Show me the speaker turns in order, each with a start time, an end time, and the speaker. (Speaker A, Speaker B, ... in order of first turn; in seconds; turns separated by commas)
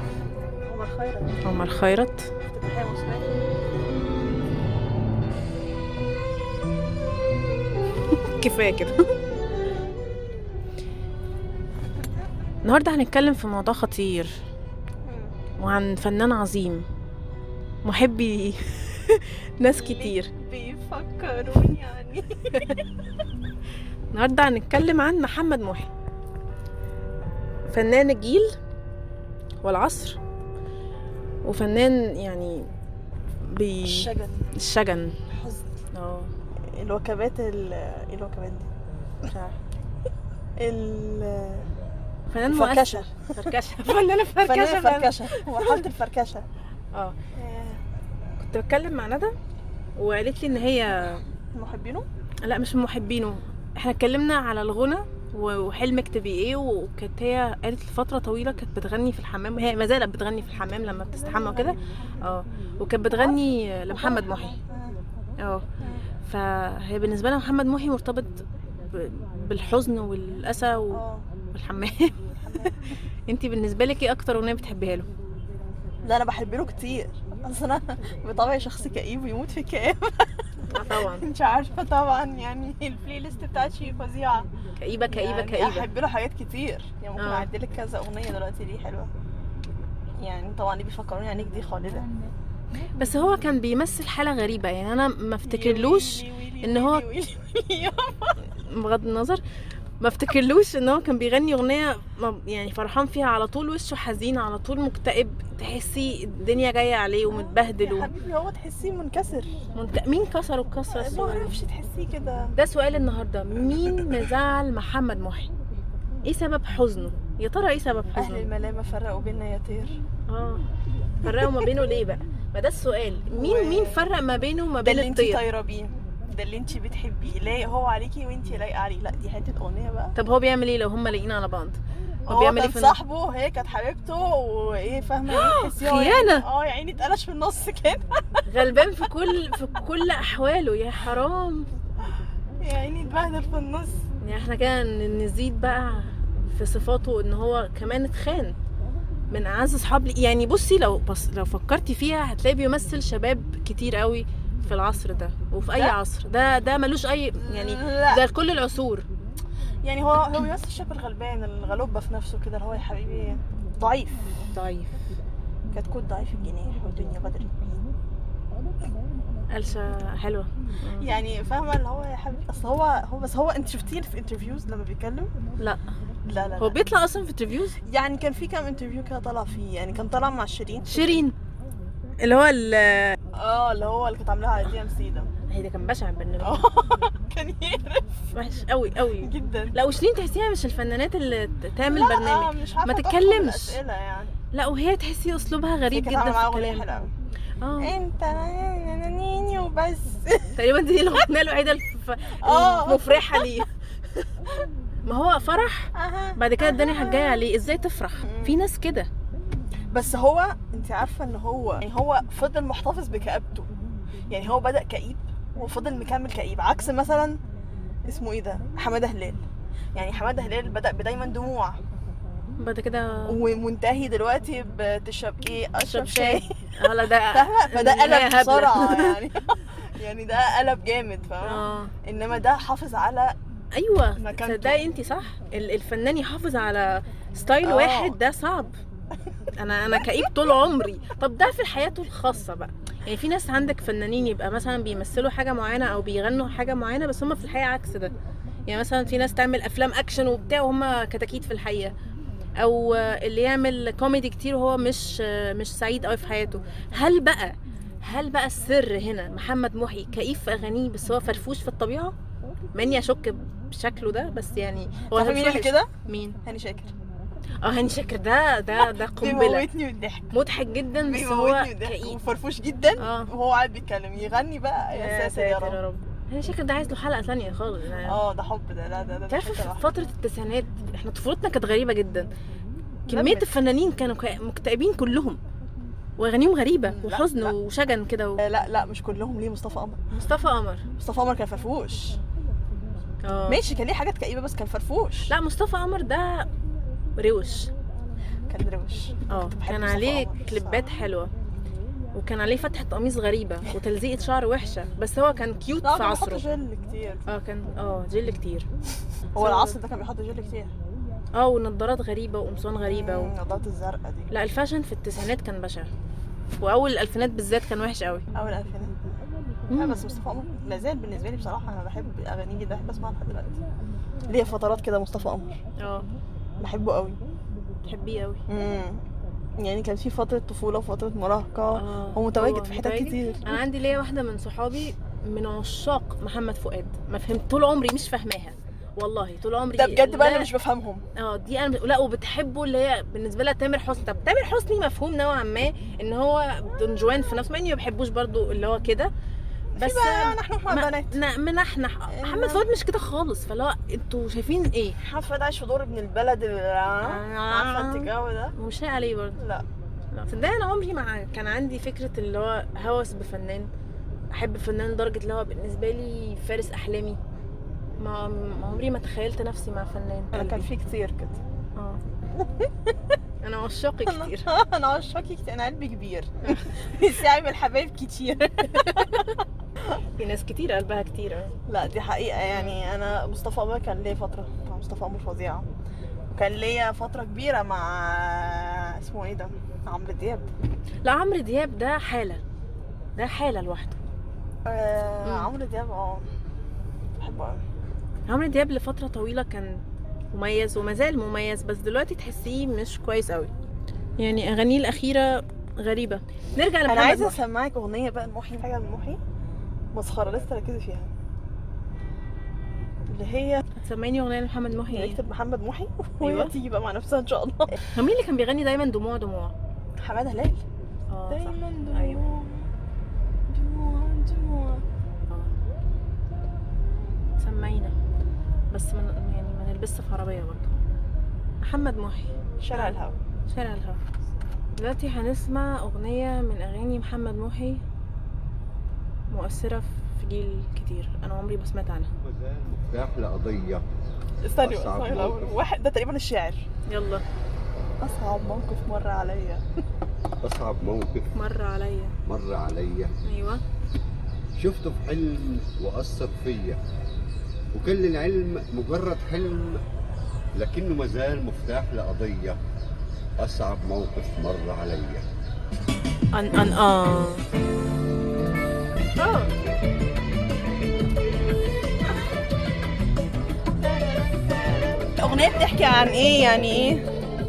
Speaker A: 0.6-1.4, Speaker B: 1.4-2.3, Speaker A: 2.4-3.4, Speaker B: 8.2-9.0, Speaker B: 12.6-14.3, Speaker A: 15.0-15.3, Speaker B: 15.6-16.9, Speaker B: 17.8-20.3, Speaker A: 19.7-22.8, Speaker B: 24.1-25.9, Speaker B: 27.7-28.5, Speaker B: 29.6-30.2, Speaker B: 31.4-32.7, Speaker B: 33.4-35.1, Speaker A: 33.8-34.5, Speaker A: 35.3-35.8, Speaker B: 35.9-36.3, Speaker A: 36.7-38.7, Speaker B: 39.3-39.6, Speaker A: 40.6-41.7, Speaker B: 42.3-45.8, Speaker A: 42.5-43.3, Speaker A: 44.4-46.4, Speaker A: 47.3-47.8, Speaker B: 48.4-49.3, Speaker B: 50.0-51.2, Speaker A: 51.5-52.1, Speaker B: 52.4-64.5, Speaker A: 61.1-62.1, Speaker A: 63.1-65.0, Speaker B: 65.4-65.7, Speaker B: 66.2-72.2, Speaker A: 70.9-71.3, Speaker A: 72.3-72.8, Speaker B: 73.3-75.1, Speaker A: 76.0-84.5, Speaker B: 80.7-81.2, Speaker B: 84.8-85.8, Speaker A: 85.1-89.1, Speaker B: 87.2-87.5, Speaker A: 90.2-92.1, Speaker B: 93.0-97.0, Speaker A: 95.4-98.4, Speaker B: 98.5-99.4, Speaker B: 100.0-108.1, Speaker A: 107.3-109.6, Speaker B: 109.7-111.5, Speaker A: 110.9-112.5, Speaker B: 112.5-115.5, Speaker A: 113.6-114.3, Speaker B: 116.2-118.5, Speaker A: 118.2-120.0, Speaker B: 120.3-120.6, Speaker B: 121.2-125.4, Speaker A: 121.3-121.5, Speaker A: 123.3-124.0, Speaker A: 124.8-130.1, Speaker B: 130.2-132.9, Speaker A: 132.3-138.2, Speaker B: 135.3-136.4, Speaker B: 138.4-141.7, Speaker A: 142.1-144.2, Speaker B: 144.2-148.6, Speaker B: 149.3-159.0, Speaker A: 157.4-158.2, Speaker A: 159.8-164.2, Speaker B: 164.5-164.9, Speaker A: 165.7-167.8, Speaker B: 169.5-171.1, Speaker A: 171.0-175.3, Speaker B: 175.6-175.8, Speaker A: 176.2-176.8, Speaker B: 176.6-177.8, Speaker A: 177.8-181.2, Speaker B: 180.9-181.3, Speaker B: 182.2-183.2, Speaker A: 183.3-185.3, Speaker B: 185.5-186.6, Speaker A: 186.4-188.1, Speaker B: 188.3-193.8, Speaker A: 189.2-189.8, Speaker A: 191.8-194.3, Speaker B: 194.5-196.8, Speaker A: 195.9-197.1, Speaker B: 197.6-197.9, Speaker A: 197.8-200.6, Speaker B: 200.6-204.5, Speaker A: 202.4-203.5, Speaker B: 205.0-209.1, Speaker A: 205.9-207.4, Speaker A: 208.2-208.6, Speaker A: 209.9-213.7, Speaker A: 214.3-217.4, Speaker A: 218.0-221.8, Speaker B: 222.6-223.4, Speaker A: 223.3-226.5, Speaker B: 225.9-229.1, Speaker A: 227.3-233.3, Speaker B: 231.4-231.9, Speaker B: 233.7-238.8, Speaker A: 234.2-234.8, Speaker A: 237.6-238.2, Speaker B: 239.5-248.1, Speaker A: 239.9-240.3, Speaker B: 248.7-251.9, Speaker B: 252.6-262.1, Speaker B: 262.7-266.4, Speaker A: 265.1-265.9, Speaker A: 266.4-266.9, Speaker B: 267.6-269.7, Speaker A: 269.1-270.3, Speaker B: 270.3-272.1, Speaker A: 271.0-275.8, Speaker B: 273.0-273.3, Speaker B: 274.9-278.2, Speaker A: 278.1-279.9, Speaker B: 279.3-282.3, Speaker A: 283.1-283.6, Speaker B: 283.1-285.4, Speaker B: 286.2-288.4, Speaker A: 286.9-287.5, Speaker A: 288.4-290.2, Speaker B: 290.2-290.8, Speaker A: 291.0-292.2, Speaker B: 293.2-293.6, Speaker A: 293.5-295.3, Speaker B: 295.3-296.4, Speaker B: 297.2-297.7, Speaker A: 298.5-300.8, Speaker B: 299.3-301.3, Speaker B: 302.1-306.4, Speaker A: 305.8-307.2, Speaker B: 307.3-308.7, Speaker A: 309.3-310.7, Speaker B: 309.4-309.8, Speaker B: 311.4-313.3, Speaker A: 312.8-314.3, Speaker B: 314.3-315.9, Speaker B: 316.6-318.2, Speaker A: 318.3-319.0, Speaker B: 319.7-320.0, Speaker A: 319.7-323.6, Speaker A: 324.3-325.6, Speaker B: 325.8-326.1, Speaker A: 326.6-327.2, Speaker B: 327.8-328.4, Speaker A: 328.5-329.0, Speaker A: 329.6-333.5, Speaker B: 331.7-340.5, Speaker A: 339.8-341.0, Speaker B: 341.1-349.1, Speaker A: 349.7-351.1, Speaker B: 349.8-355.0, Speaker A: 352.1-352.6, Speaker A: 355.0-358.5, Speaker B: 357.0-359.4, Speaker A: 359.4-359.6, Speaker B: 360.1-363.7, Speaker B: 364.3-367.2, Speaker B: 368.0-370.6, Speaker A: 370.3-371.4, Speaker A: 372.3-373.0, Speaker B: 373.4-374.4, Speaker A: 374.1-379.2, Speaker B: 378.7-379.3, Speaker B: 380.1-381.5, Speaker A: 381.7-385.6, Speaker A: 386.3-390.5, Speaker B: 391.0-392.4, Speaker B: 393.1-394.0, Speaker A: 394.6-396.2, Speaker B: 395.2-395.5, Speaker A: 397.2-397.6, Speaker B: 398.3-403.5, Speaker B: 404.2-407.4, Speaker A: 406.9-409.2, Speaker A: 409.9-411.1, Speaker A: 413.1-413.6, Speaker B: 413.8-415.2, Speaker A: 414.9-417.8, Speaker B: 416.2-416.5, Speaker B: 417.9-419.5, Speaker A: 420.0-420.6, Speaker B: 421.1-422.2, Speaker A: 421.3-422.7, Speaker A: 423.5-424.8, Speaker B: 427.4-427.9, Speaker B: 428.7-430.7, Speaker B: 431.6-434.0, Speaker A: 432.6-433.1, Speaker B: 434.8-437.8, Speaker B: 439.3-442.1, Speaker C: 442.2-443.8, Speaker A: 444.4-446.6, Speaker C: 444.6-445.6, Speaker B: 446.9-447.2, Speaker A: 448.0-449.6, Speaker C: 450.4-451.3, Speaker B: 451.3-452.1, Speaker C: 452.2-453.1, Speaker B: 453.2-453.6, Speaker C: 454.5-456.8, Speaker C: 457.7-459.8, Speaker C: 460.6-462.6, Speaker C: 463.4-465.2, Speaker B: 466.3-467.4, Speaker B: 469.2-469.5, Speaker A: 473.8-477.0